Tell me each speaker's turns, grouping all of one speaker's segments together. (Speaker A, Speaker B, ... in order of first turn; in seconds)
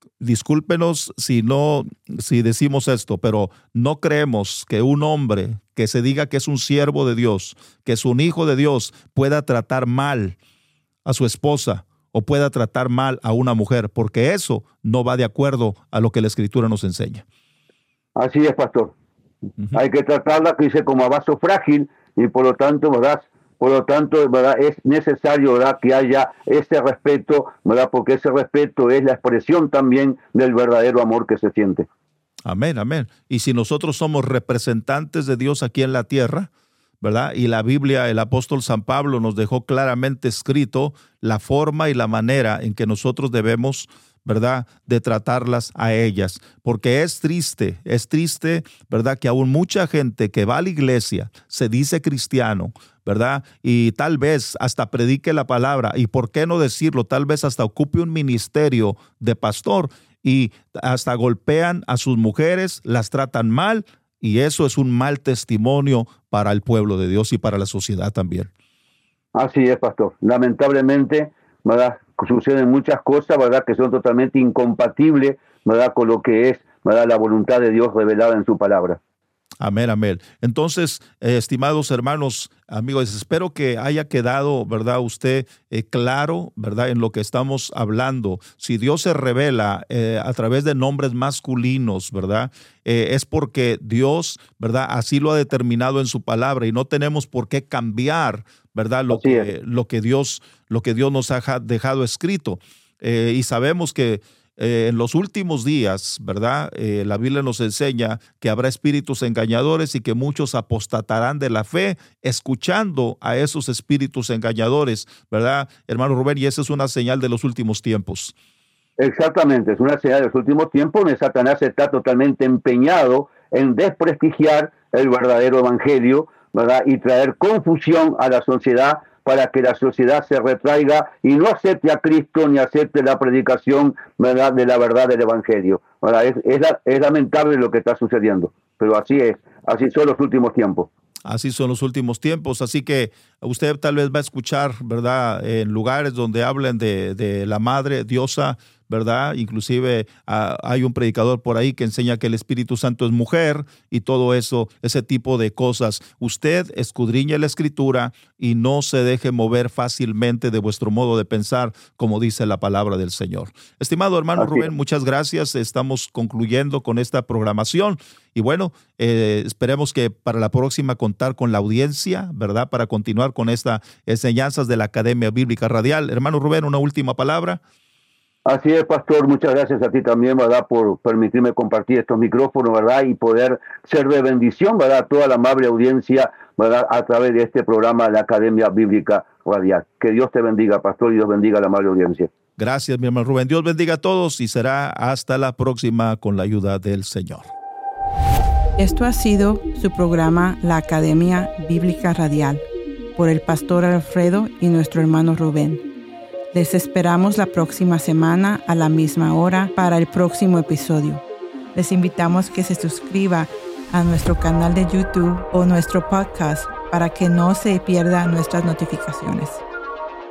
Speaker A: 0.2-10.4, 11.1-17.2, 32.5-36.5, 37.0-68.5, 79.6-118.3, 141.3-177.6, 192.6-197.5
Speaker B: 18.2-18.9, 19.7-31.9, 69.3-79.0, 99.1-99.5, 119.0-140.9, 164.4-164.7, 178.5-192.3
Speaker C: 198.8-202.6, 203.2-205.8, 206.5-211.2, 211.8-219.6